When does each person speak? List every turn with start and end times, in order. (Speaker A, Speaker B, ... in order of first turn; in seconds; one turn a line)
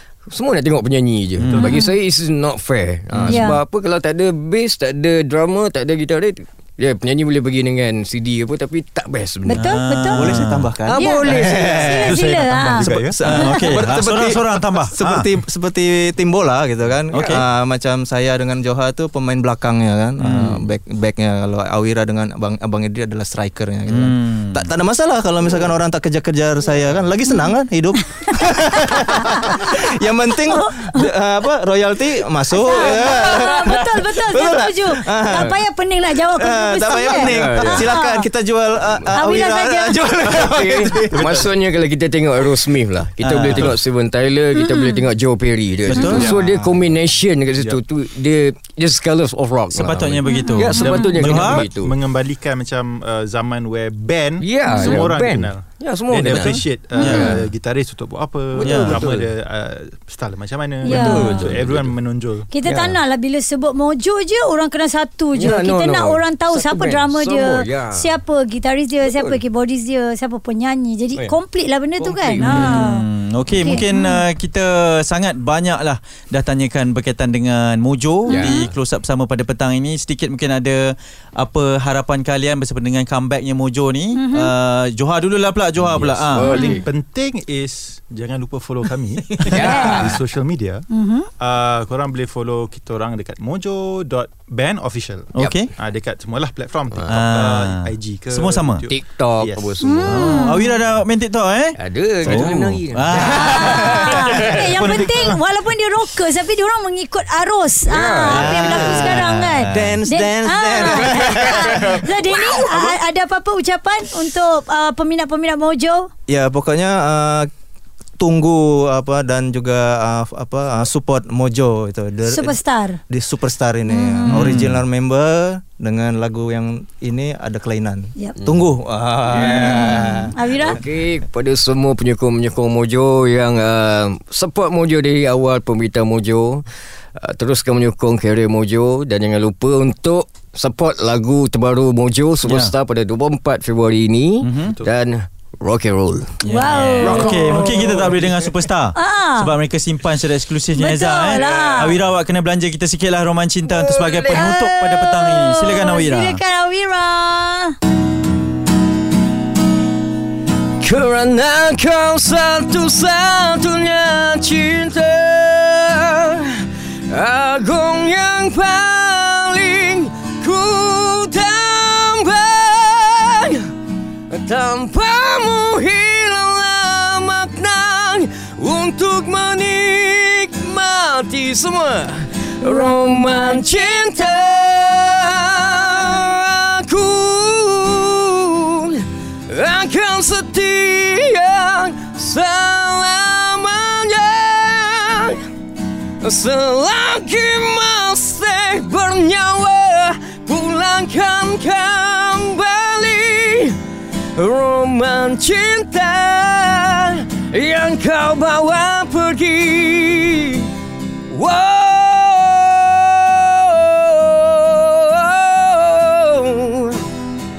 Speaker A: 0.3-9.7
Speaker B: 1.4-1.7
Speaker C: 1.6-1.9
Speaker B: 3.2-3.5
Speaker C: 3.3-3.6
Speaker C: 9.5-10.4
Speaker B: 9.6-10.7
Speaker D: 10.1-35.5
Speaker A: 10.9-12.3
Speaker C: 10.9-13.7
Speaker E: 12.1-13.2
Speaker B: 13.2-15.3
Speaker A: 17.1-17.4
Speaker B: 17.1-17.4
Speaker B: 20.2-20.6
Speaker A: 20.4-20.6
Speaker B: 23.9-24.7
Speaker C: 28.2-29.8
Speaker C: 30.5-31.1
Speaker C: 32.5-38.3
Speaker A: 32.9-33.6
Speaker A: 35.3-35.6
Speaker D: 36.2-41.4
Speaker A: 37.1-37.9
Speaker C: 39.2-40.0
Speaker A: 40.2-52.0
Speaker E: 40.9-41.5
Speaker B: 43.2-43.8
Speaker C: 44.6-45.1
Speaker B: 45.9-46.4
Speaker E: 45.9-46.8
Speaker B: 49.7-51.6
Speaker C: 50.3-51.1
Speaker E: 50.8-62.5
Speaker A: 54.4-57.5
Speaker C: 54.7-55.0
Speaker B: 56.3-57.4
Speaker A: 58.5-59.3
Speaker B: 58.6-59.0
Speaker C: 60.8-61.5
Speaker A: 60.9-62.0
Speaker C: 62.5-74.2
Speaker A: 62.6-63.0
Speaker A: 65.3-68.1
Speaker A: 69.0-69.4
Speaker A: 72.0-72.9
Speaker B: 72.4-86.7
Speaker C: 78.3-78.7
Speaker A: 78.3-78.7
Speaker C: 84.1-84.5
Speaker A: 85.8-86.9
Speaker E: 86.0-90.8
Speaker C: 86.5-86.8
Speaker A: 89.4-90.2
Speaker C: 89.5-90.2
Speaker C: 90.9-91.3
Speaker E: 91.4-99.8
Speaker B: 95.3-95.7
Speaker A: 96.9-97.3
Speaker B: 97.1-98.8
Speaker A: 98.9-100.5
Speaker C: 99.8-100.7
Speaker B: 100.1-105.4
Speaker A: 101.8-104.6
Speaker E: 102.2-102.6
Speaker C: 103.3-116.1
Speaker A: 107.9-109.0
Speaker B: 108.2-110.0
Speaker D: 108.8-109.1
Speaker D: 109.7-113.0
Speaker A: 111.0-111.9
Speaker D: 116.3-117.5
Speaker D: 118.2-122.6
Speaker C: 122.3-123.0
Speaker D: 123.1-130.3
Speaker C: 123.9-124.5
Speaker B: 124.3-124.8
Speaker A: 128.4-128.7
Speaker A: 129.2-136.6
Speaker C: 130.3-130.8
Speaker A: 137.2-146.4
Speaker B: 142.4-142.7
Speaker B: 144.4-144.8
Speaker B: 146.4-156.4
Speaker C: 146.5-147.9
Speaker A: 147.0-148.4
Speaker C: 148.9-149.5
Speaker C: 150.8-152.0
Speaker A: 153.7-154.7
Speaker C: 154.3-157.8
Speaker A: 160.8-173.7
Speaker A: 174.3-195.4
Speaker A: 196.2-203.8
Speaker A: 204.4-210.7
Speaker A: 211.3-217.1